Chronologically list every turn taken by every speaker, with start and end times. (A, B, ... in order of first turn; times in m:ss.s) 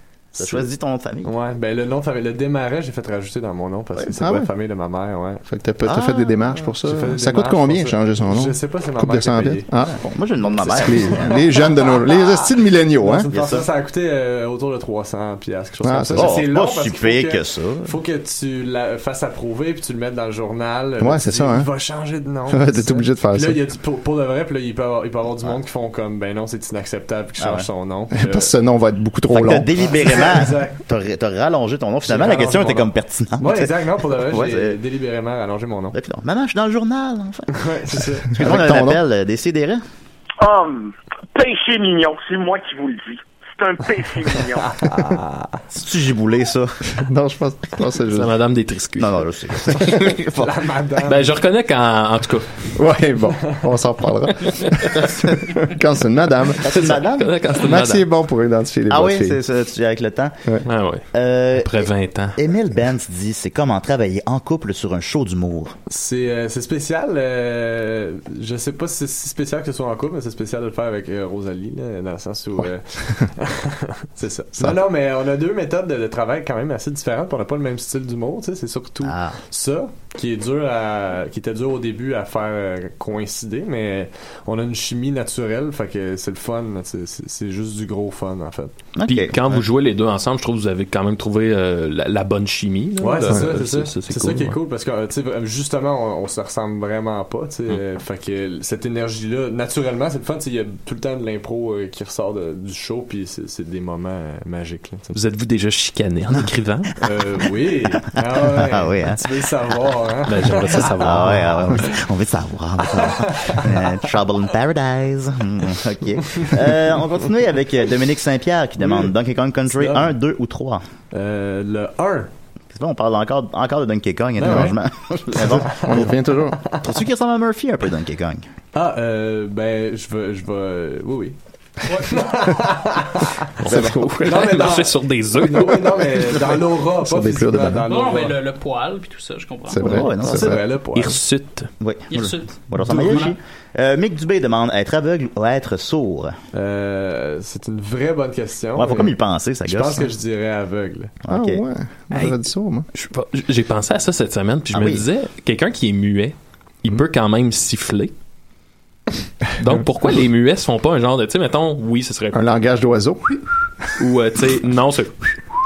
0:00.4-0:01.3 A
0:00.4-0:00.7 B
0:01.2-0:05.4 B
0:04.2-0:04.5 C
0:05.5-0:10.0 C
0:05.8-0:06.3 A
0:06.6-0:09.7 B
0:09.8-0:11.4 A
0:10.4-0:12.2 B
0:10.6-0:13.3 C
0:13.0-0:28.5 B
0:13.3-0:13.7 A
0:15.8-0:16.4 C
0:16.1-0:17.9 A
0:21.0-0:21.7 C
0:22.5-0:23.6 C
0:27.4-0:27.7 A
0:28.1-0:29.9 C
0:29.3-0:34.8 A
0:29.8-0:30.8 B
0:32.0-0:36.0 B
0:35.9-0:37.6 A
0:37.5-0:38.3 B
0:38.3-0:39.8 A
0:38.4-0:39.0 C
0:40.4-0:44.9 D
0:44.8-0:45.6 B
0:45.7-0:46.8 A
0:46.9-0:48.3 C
0:48.1-0:50.2 E
0:49.0-0:50.5 A
0:50.3-0:51.3 B
0:51.1-0:52.8 E
0:52.7-0:57.0 C
0:54.4-0:54.9 E
0:54.9-0:55.6 A
0:56.6-0:57.4 A
0:56.6-0:58.1 E
0:57.5-0:59.4 C
0:58.9-1:00.4 A
1:00.6-1:02.4 E
1:01.1-1:05.7 A
1:05.9-1:28.7 B
1:19.0-1:19.4 A
1:28.9-1:29.6 A
1:29.0-1:34.6 E
1:33.0-1:45.2 B
1:45.1-1:46.9 E
1:47.0-1:51.0 B
1:48.5-1:49.3 A
1:50.3-1:51.9 E
1:51.0-2:00.8 A
1:52.8-1:53.9 B
1:56.3-1:56.7 B
1:58.8-1:59.1 B
1:59.7-2:00.1 B
2:01.1-2:02.3 B
2:02.7-2:06.1 A
2:04.4-2:04.8 B
2:05.4-2:06.6 C
2:05.4-2:06.0 B
2:06.8-2:08.4 A
2:08.7-2:11.4 B
2:11.8-2:12.6 F
2:12.0-2:18.4 B
2:13.6-2:16.4 E
2:13.6-2:14.3 C
2:17.0-2:17.8 C
2:17.8-2:19.8 F
2:19.7-2:20.6 C
2:19.8-2:20.6 A
2:19.8-2:21.2 B
2:20.9-2:21.7 E
2:21.8-2:26.4 A
2:22.1-2:23.4 F
2:26.5-2:31.1 B
2:28.8-2:30.1 A
2:31.2-2:31.6 A
2:31.3-2:32.9 C
2:32.1-2:32.4 E
2:32.9-2:38.1 E
2:34.7-2:35.0 A
2:39.4-2:42.4 E
2:42.3-2:43.9 C
2:44.0-2:45.4 E